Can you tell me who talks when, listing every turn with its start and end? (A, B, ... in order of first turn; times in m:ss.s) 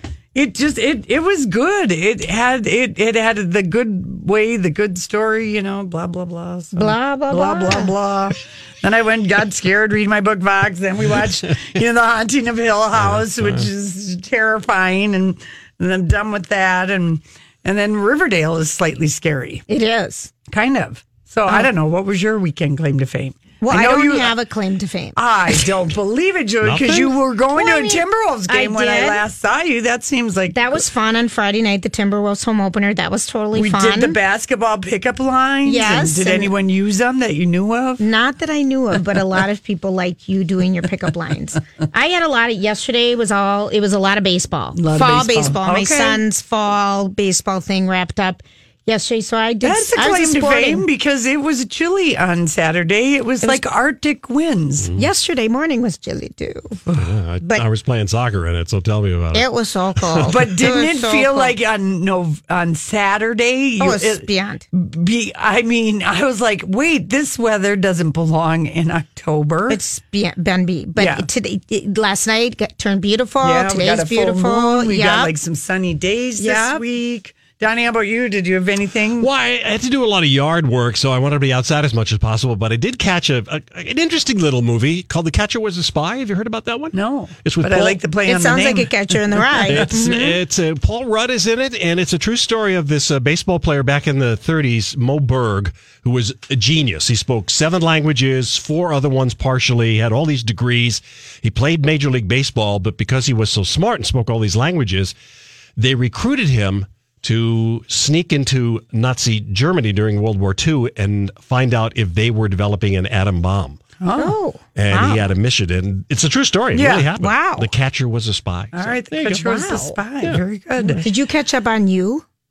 0:00.3-0:19.6 A
0:06.7-0:07.9 B
0:13.0-0:13.7 C
0:19.7-0:20.3 B
0:20.5-0:24.3 A
0:23.6-0:25.6 B
0:25.1-0:30.8 A
0:26.6-0:27.1 C
0:27.6-0:29.2 B
0:30.5-0:34.2 B
0:33.5-0:38.0 A
0:35.6-0:36.5 B
0:38.0-0:50.8 B
0:44.7-0:46.2 A
0:49.6-0:54.9 A
0:54.8-0:55.1 C
0:55.0-0:56.8 B
0:57.0-1:00.3 C
0:59.3-1:01.6 B
1:00.3-1:09.8 A
1:03.8-1:04.6 B
1:09.7-1:15.3 B
1:11.0-1:11.3 A
1:13.4-1:19.3 A
1:16.4-1:16.8 B
1:19.2-1:28.0 C
1:26.9-1:29.9 A
1:28.2-1:30.4 B
1:29.7-1:45.1 C
1:45.8-1:53.8 C
1:54.0-1:54.4 A
1:54.2-1:55.2 B
1:54.8-1:59.4 C
1:56.7-1:57.1 A
1:57.2-1:57.7 B
1:58.7-2:01.0 A
1:59.3-2:00.0 B
2:00.2-2:01.0 C
2:01.0-2:02.2 B